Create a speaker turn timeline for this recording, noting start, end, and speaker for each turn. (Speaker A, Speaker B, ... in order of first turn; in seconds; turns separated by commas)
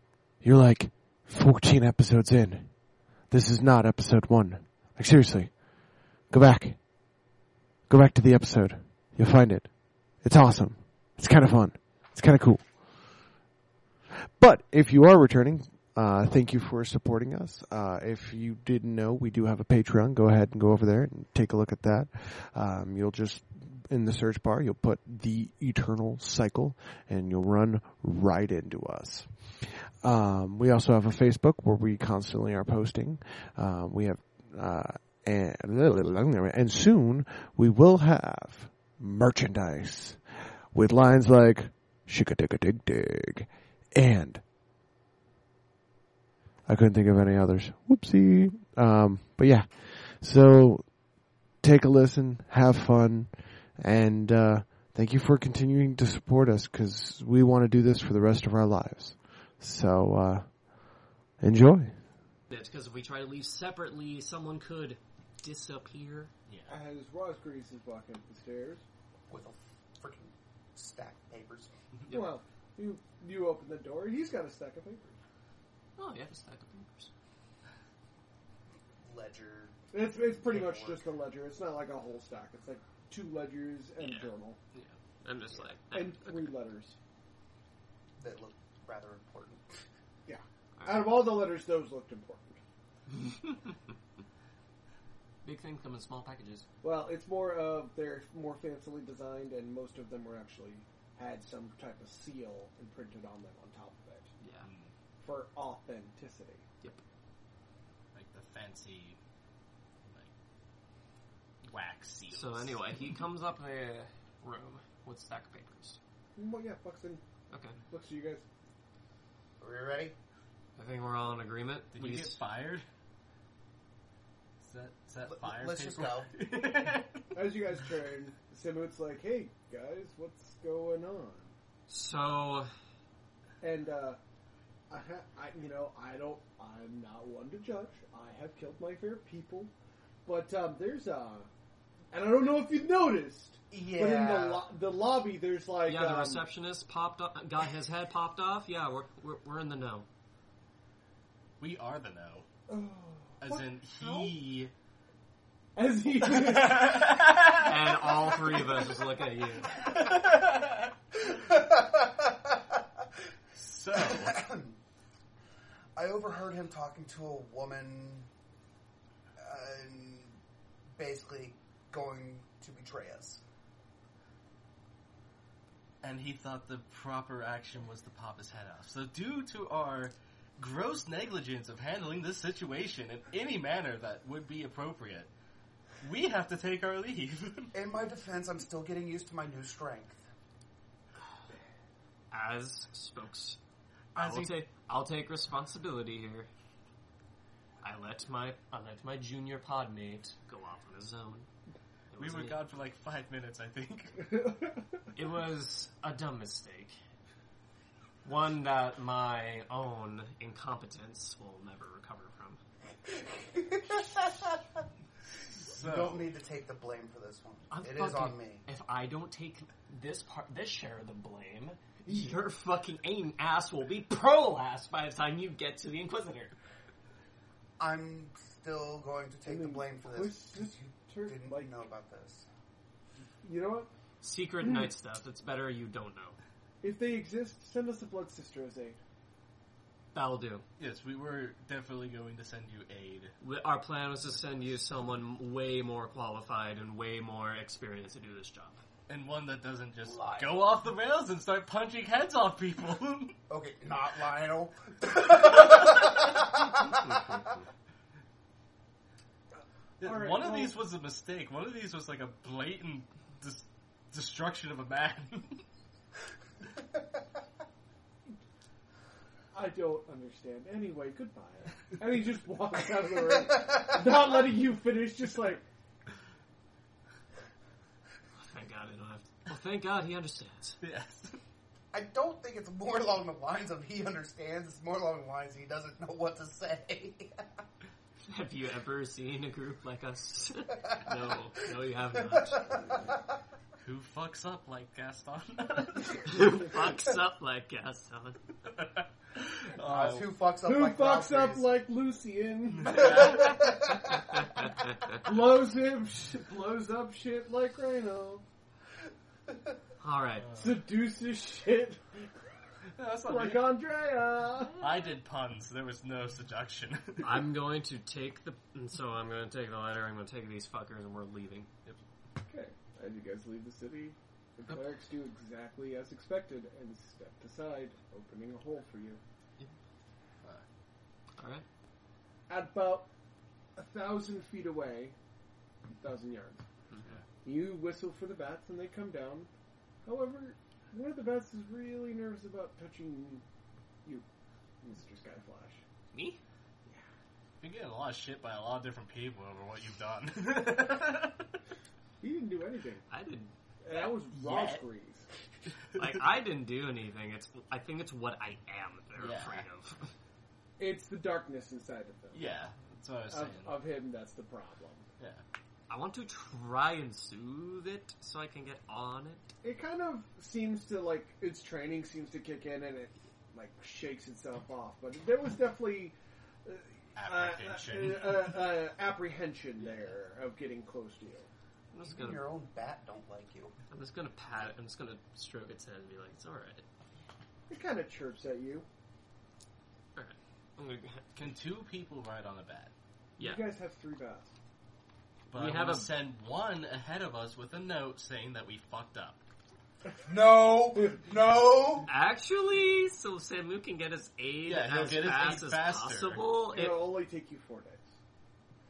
Speaker A: 0.4-13.3, Speaker A: 14.3-44.4, Speaker A: 46.6-62.0, Speaker B: 62.5-66.3, Speaker C: 66.7-68.8, Speaker D: 69.3-71.7, Speaker C: 72.1-75.2, Speaker B: 76.0-77.1, Speaker D: 79.0-81.1, Speaker C: 79.9-84.6, Speaker B: 84.0-84.3, Speaker B: 85.2-86.6, Speaker C: 85.9-87.0, Speaker D: 88.2-89.8, Speaker C: 90.3-92.6, Speaker B: 90.8-91.2, Speaker B: 95.4-96.7, Speaker C: 96.8-104.3, Speaker B: 104.4-104.7, Speaker E: 104.6-104.9, Speaker C: 105.2-106.6, Speaker E: 108.1-109.2, Speaker E: 110.0-110.3, Speaker E: 111.7-112.8, Speaker B: 112.3-116.0, Speaker C: 116.4-117.2, Speaker B: 117.5-117.8, Speaker C: 117.9-118.4, Speaker D: 119.6-120.2, Speaker B: 120.8-122.4, Speaker E: 121.9-122.9, Speaker E: 124.6-127.3, Speaker D: 125.3-126.3, Speaker C: 127.3-131.5, Speaker B: 131.9-132.7, Speaker C: 133.6-134.2, Speaker C: 134.9-139.7, Speaker C: 140.2-141.5, Speaker C: 142.1-146.4, Speaker D: 143.7-144.7, Speaker B: 145.8-150.1, Speaker E: 151.6-152.5, Speaker C: 152.7-154.3, Speaker E: 153.4-154.7, Speaker C: 155.8-157.1, Speaker E: 156.2-157.7, Speaker B: 157.6-159.7, Speaker E: 159.8-160.8, Speaker D: 161.3-163.0, Speaker E: 163.5-164.4, Speaker D: 163.9-164.8, Speaker D: 166.0-168.3, Speaker D: 169.4-170.4, Speaker D: 171.0-173.4, Speaker E: 176.0-185.3, Speaker E: 186.0-187.7, Speaker D: 187.7-190.3, Speaker B: 192.3-193.6, Speaker E: 194.1-194.6, Speaker B: 194.2-196.5, Speaker B: 197.8-201.5, Speaker B: 202.1-202.6, Speaker E: 202.2-204.3, Speaker B: 205.1-207.0, Speaker B: 208.2-212.6, Speaker D: 213.1-214.8, Speaker E: 215.5-216.3, Speaker D: 215.7-218.7, Speaker B: 217.7-226.5, Speaker C: 222.1-222.4, Speaker D: 227.8-232.5, Speaker C: 229.5-231.8, Speaker C: 233.4-233.9, Speaker B: 234.2-236.4, Speaker C: 236.8-239.0, Speaker B: 240.1-240.6, Speaker E: 240.8-243.3, Speaker B: 243.4-248.8, Speaker E: 249.1-253.3, Speaker D: 250.1-250.6, Speaker D: 253.5-257.4, Speaker E: 260.0-265.6, Speaker C: 260.0-260.8, Speaker C: 269.5-275.6, Speaker D: 273.4-274.1, Speaker B: 278.4-280.8, Speaker E: 280.8-281.4, Speaker D: 281.9-287.6, Speaker B: 288.2-293.0, Speaker D: 290.8-291.2, Speaker D: 292.1-293.2, Speaker E: 293.8-296.4, Speaker B: 296.2-298.4, Speaker E: 298.6-300.4, Speaker D: 299.8-301.7, Speaker C: 300.6-303.7, Speaker E: 302.7-303.6, Speaker D: 303.1-304.0, Speaker C: 305.1-308.4, Speaker B: 310.0-310.5, Speaker E: 310.4-310.8, Speaker C: 310.6-312.3, Speaker E: 313.0-313.8, Speaker C: 313.3-314.8, Speaker E: 314.8-317.5, Speaker B: 317.2-321.7, Speaker C: 322.5-329.2, Speaker B: 331.4-331.6, Speaker C: 332.5-333.1, Speaker C: 333.8-335.1, Speaker C: 336.0-336.6, Speaker E: 337.0-337.2, Speaker C: 337.4-339.5, Speaker C: 340.1-343.4, Speaker C: 344.8-345.8, Speaker B: 346.1-346.4, Speaker E: 347.6-351.6, Speaker C: 352.2-353.1, Speaker B: 353.1-353.5, Speaker C: 353.8-355.3, Speaker E: 353.9-354.9, Speaker B: 356.0-360.1, Speaker E: 359.2-359.6, Speaker C: 360.8-362.6, Speaker E: 362.3-363.8, Speaker C: 363.3-365.1, Speaker B: 365.9-369.4, Speaker C: 369.6-381.5, Speaker E: 377.2-378.7, Speaker B: 381.9-382.5, Speaker D: 382.1-383.8, Speaker B: 383.9-386.9, Speaker C: 387.7-388.9, Speaker B: 390.1-391.4, Speaker E: 391.4-392.9, Speaker B: 393.4-393.6, Speaker C: 393.4-394.5, Speaker E: 395.5-399.4, Speaker B: 395.5-396.1, Speaker D: 400.3-402.1, Speaker B: 402.1-407.1, Speaker E: 404.7-406.4, Speaker C: 406.7-408.1